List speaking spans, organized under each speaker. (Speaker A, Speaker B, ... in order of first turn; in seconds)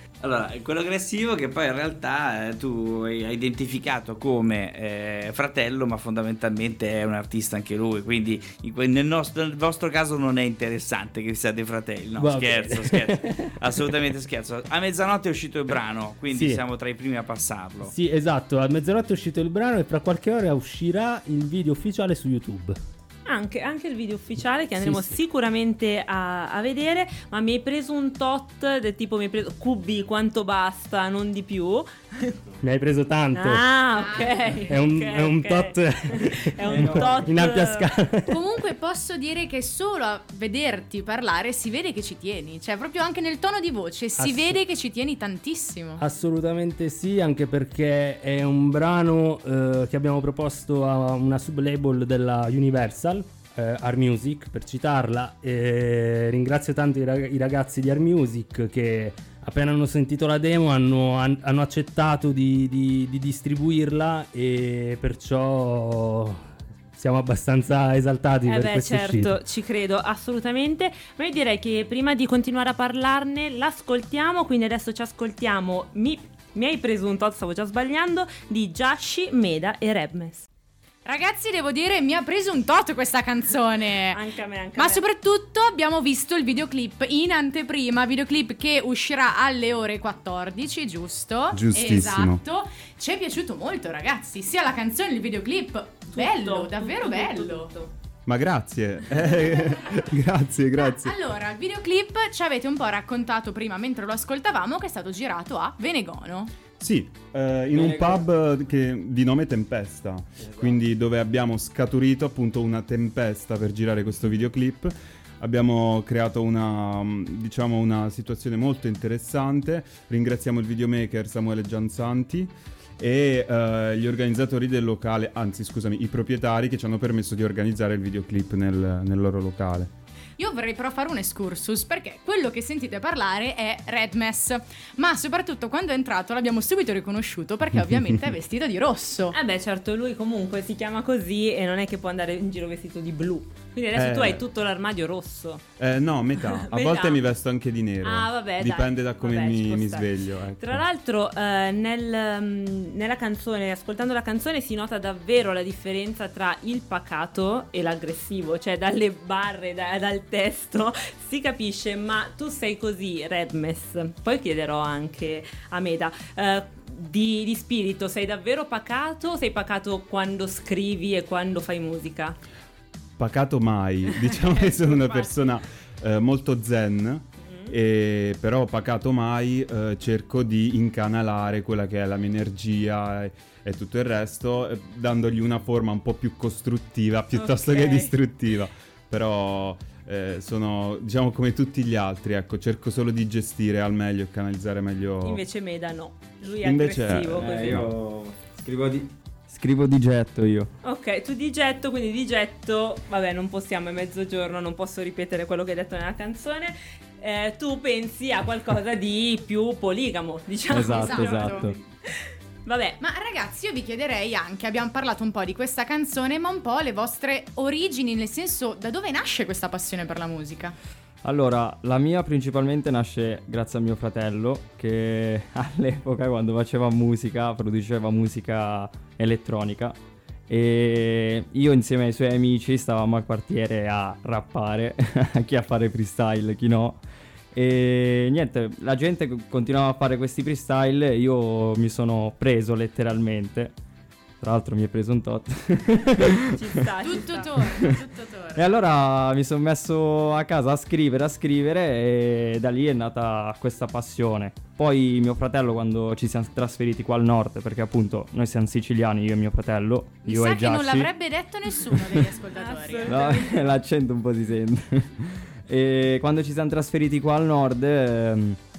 Speaker A: 0.2-17.9
Speaker B: 12.2-13.5, 16.3-16.6, 17.8-22.8, 32.6-33.6, 34.7-38.4, 44.2-44.6, 46.0-66.4, 67.0-69.4
Speaker C: 23.3-32.4, 33.3-37.9, 68.5-80.5, 84.1-85.0, 96.1-97.9, 139.3-145.6, 146.5-147.2, 148.0-172.4, 174.3-175.3, 177.4-177.8, 187.3-188.1, 195.2-197.9, 200.8-213.0, 246.5-247.6, 262.6-263.7
Speaker D: 34.0-34.6, 38.3-46.0, 81.0-84.2, 84.8-97.7, 99.4-99.8, 100.8-106.5, 130.4-139.4, 211.0-211.7, 213.0-220.8, 247.0-248.6, 260.3-263.1
Speaker E: 36.7-37.3, 107.7-108.3, 110.4-110.7, 197.4-200.7, 210.7-211.8, 221.2-230.0, 230.5-237.0, 237.5-243.8, 244.4-246.5, 248.6-261.1, 261.9-262.2, 263.1-268.6
Speaker F: 91.5-92.4, 98.3-101.2, 106.8-129.9, 143.9-144.4, 145.8-150.8, 173.2-195.4, 196.6-197.9